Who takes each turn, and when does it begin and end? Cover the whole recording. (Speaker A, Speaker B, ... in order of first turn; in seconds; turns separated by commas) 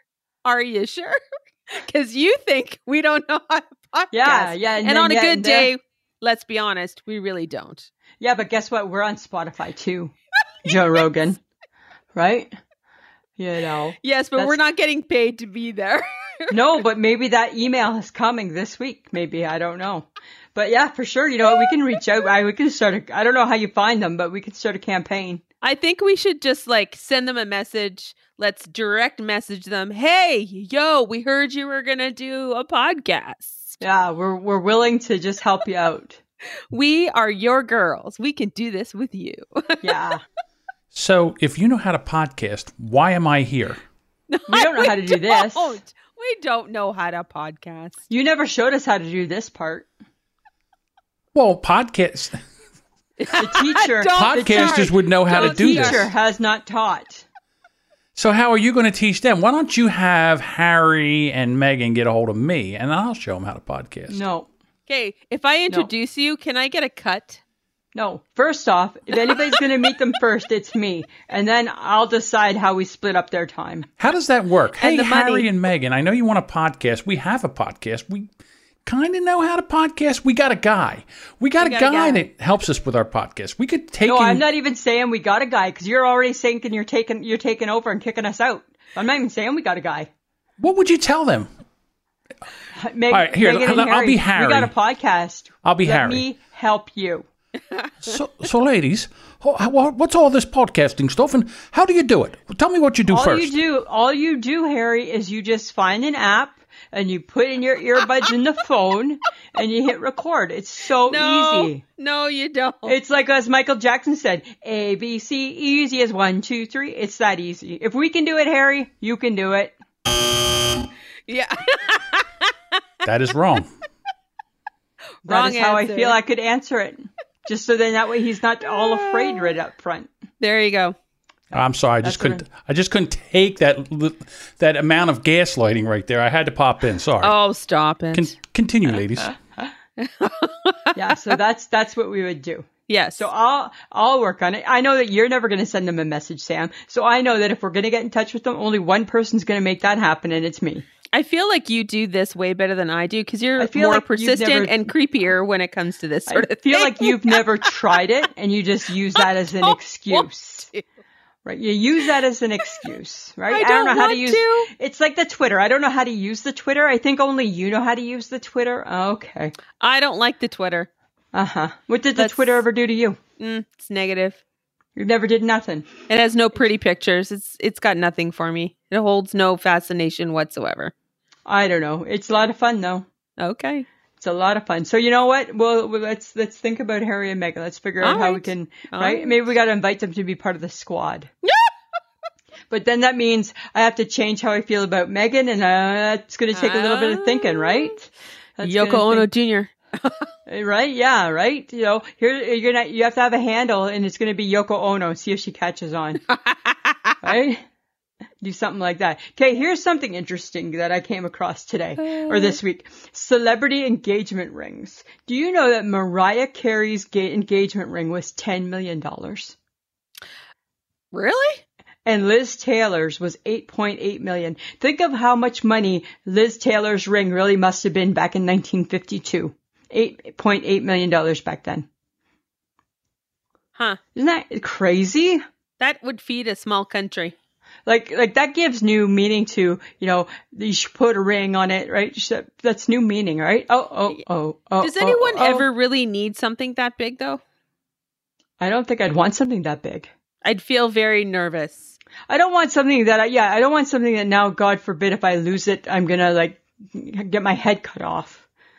Speaker A: 0.4-7.9, Speaker B: 4.1-5.7, Speaker B: 8.2-10.1, Speaker B: 10.6-11.4, Speaker B: 12.1-12.5, Speaker B: 13.4-14.6, Speaker A: 14.0-16.8, Speaker B: 16.5-25.4, Speaker A: 25.6-33.8, Speaker B: 33.8-36.2, Speaker A: 36.7-40.0, Speaker B: 39.8-40.2, Speaker C: 40.9-43.8, Speaker A: 44.3-48.0, Speaker B: 44.5-45.8, Speaker B: 48.1-49.9, Speaker C: 51.3-52.4, Speaker A: 53.2-56.1, Speaker B: 53.4-57.2, Speaker C: 54.1-56.1, Speaker C: 58.1-64.2, Speaker B: 64.1-64.5, Speaker A: 64.9-67.4, Speaker B: 67.9-73.9, Speaker A: 69.2-69.6, Speaker C: 74.0-78.3, Speaker A: 74.8-75.5, Speaker C: 78.8-84.4, Speaker A: 81.6-82.2, Speaker B: 84.0-90.1, Speaker C: 90.6-91.5, Speaker B: 92.8-97.2, Speaker C: 93.1-94.7, Speaker C: 95.6-96.2, Speaker A: 97.7-98.1, Speaker C: 98.0-103.6, Speaker B: 103.1-111.8, Speaker A: 111.1-113.0, Speaker B: 112.8-119.7, Speaker A: 121.3-122.8, Speaker C: 123.0-123.7, Speaker A: 125.2-126.2, Speaker B: 125.2-130.1, Speaker A: 128.7-129.5, Speaker A: 130.4-130.9, Speaker C: 131.5-137.4, Speaker B: 132.0-132.4, Speaker A: 137.2-138.3, Speaker C: 138.1-139.3, Speaker A: 140.0-141.4, Speaker B: 140.9-150.8, Speaker A: 142.9-143.3, Speaker A: 151.1-157.5, Speaker B: 153.6-154.8, Speaker B: 156.3-160.7, Speaker A: 159.2-160.8, Speaker B: 161.4-169.6, Speaker A: 163.5-164.7, Speaker A: 169.8-170.9, Speaker B: 171.3-173.2, Speaker A: 172.2-172.6, Speaker A: 173.4-174.4, Speaker B: 174.9-175.9, Speaker A: 176.1-180.9, Speaker B: 181.4-183.0, Speaker A: 183.4-183.8, Speaker B: 184.2-191.3, Speaker A: 188.0-189.3, Speaker A: 191.4-191.7, Speaker B: 192.7-199.3, Speaker A: 196.5-197.9, Speaker A: 198.6-200.3, Speaker B: 200.5-206.2, Speaker A: 206.2-207.3, Speaker B: 207.2-207.6, Speaker B: 208.4-219.6, Speaker A: 212.0-212.6, Speaker A: 221.1-221.6, Speaker B: 222.1-231.8, Speaker A: 233.7-234.0, Speaker B: 234.1-235.4, Speaker A: 235.8-237.3, Speaker B: 237.8-245.7, Speaker A: 244.8-247.4, Speaker B: 248.6-250.1, Speaker A: 250.4-251.9, Speaker B: 252.3-258.4